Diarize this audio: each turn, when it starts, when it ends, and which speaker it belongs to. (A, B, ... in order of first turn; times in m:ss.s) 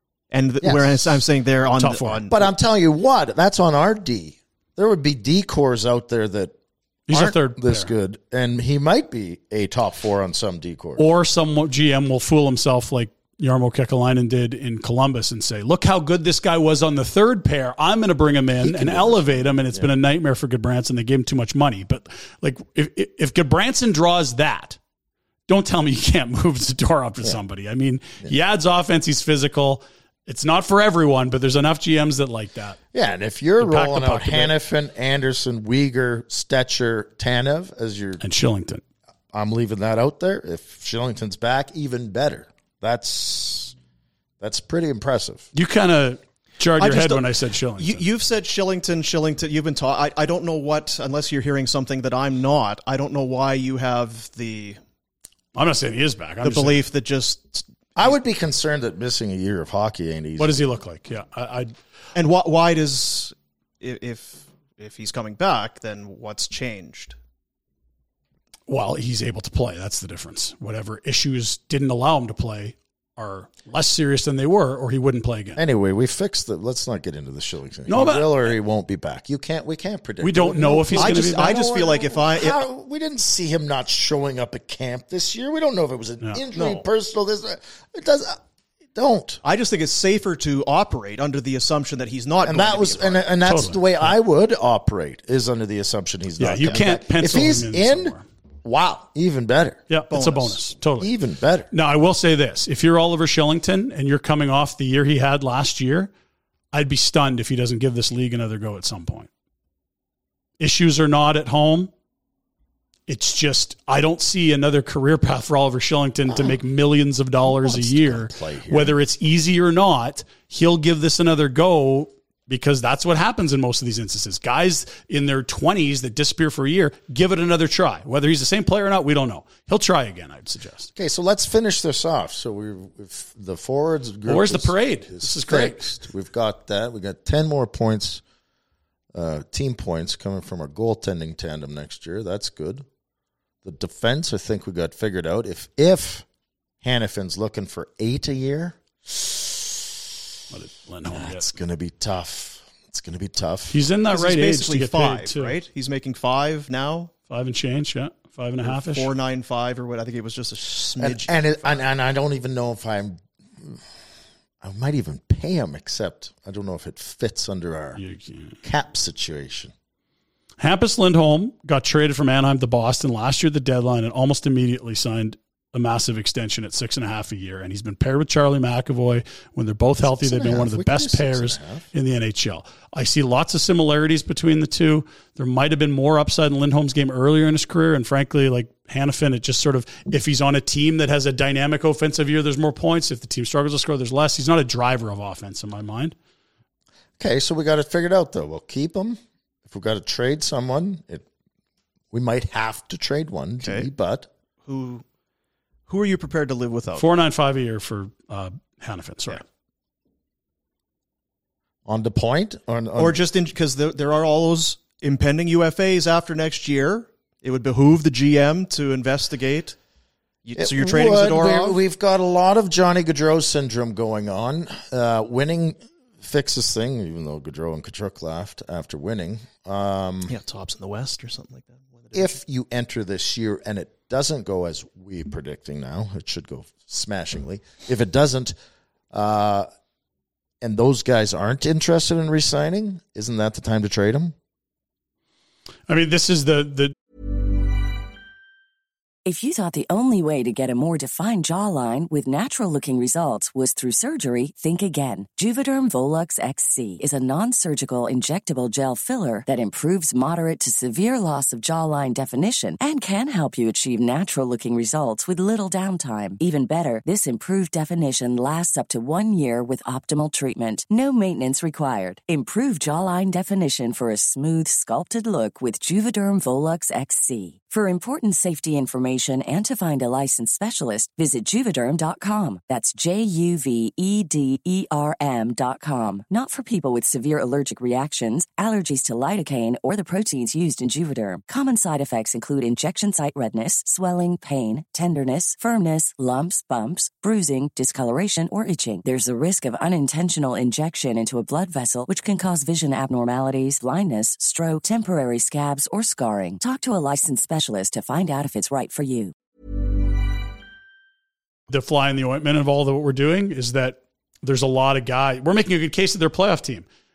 0:00.3-0:02.5 A
0:00.6-0:01.0 B
0:01.8-0:02.2 C
0:02.3-0:06.5 B
0:07.1-0:07.9 C
0:07.1-0:11.0 B
0:11.0-0:24.8 C
0:18.6-0:19.9 B
0:25.5-0:32.8 C
0:32.9-0:38.2 B
0:33.6-0:34.5 C
0:38.2-0:38.8 C
0:39.3-0:43.7 B
0:44.4-0:45.5 B
0:45.5-0:48.0 C
0:46.8-0:47.2 A
0:47.8-0:54.8 A
0:55.5-0:56.8 C
0:56.4-0:58.1 A
0:58.0-1:00.6 B
1:00.4-1:01.7 C
1:02.1-1:07.2 A
1:08.7-1:15.6 C
1:15.6-1:28.4 B
1:17.9-1:18.4 C
1:20.2-1:21.6 C
1:20.9-1:22.6 A
1:26.5-1:26.8 A
1:28.9-1:29.4 B
1:29.4-1:33.3 A
1:32.4-1:39.8 B
1:33.4-1:34.1 C
1:36.4-1:38.2 C
1:39.9-1:41.1 C
1:40.1-1:40.6 A
1:41.0-1:41.7 B
1:41.7-1:46.1 C
1:46.7-1:49.3 C
1:50.6-1:51.9 C
1:53.1-2:10.9 C
1:57.4-1:59.0 B
2:11.0-2:18.2 B
2:14.3-2:16.0 C
2:19.1-2:22.8 B
2:23.6-2:26.2 B
2:26.8-2:29.9 B
2:30.5-2:31.5 C
2:31.1-2:33.8 B
2:33.7-2:35.6 C
2:34.1-2:37.1 A
2:37.3-2:39.1 C
2:38.6-2:41.8 A
2:41.0-2:43.8 B
2:44.6-2:48.0 B
2:48.0-2:48.6 C
2:48.6-2:49.7 B
2:50.6-3:16.1 C
3:00.0-3:01.9 B
3:17.2-3:21.2 B
3:22.1-3:24.3 B
3:23.6-3:23.9 A
3:24.6-3:25.0 A
3:25.9-3:27.0 A
3:27.0-3:29.4 C
3:31.8-3:33.2 B
3:33.0-3:39.8 A
3:40.4-3:41.8 A
3:40.6-3:50.3 B
3:50.3-3:52.3 A
3:52.1-3:58.5 B
3:59.1-3:59.7 B
4:00.6-4:04.3 B
4:05.9-4:06.9 C
4:09.2-5:09.3 D
5:11.7-5:16.8 C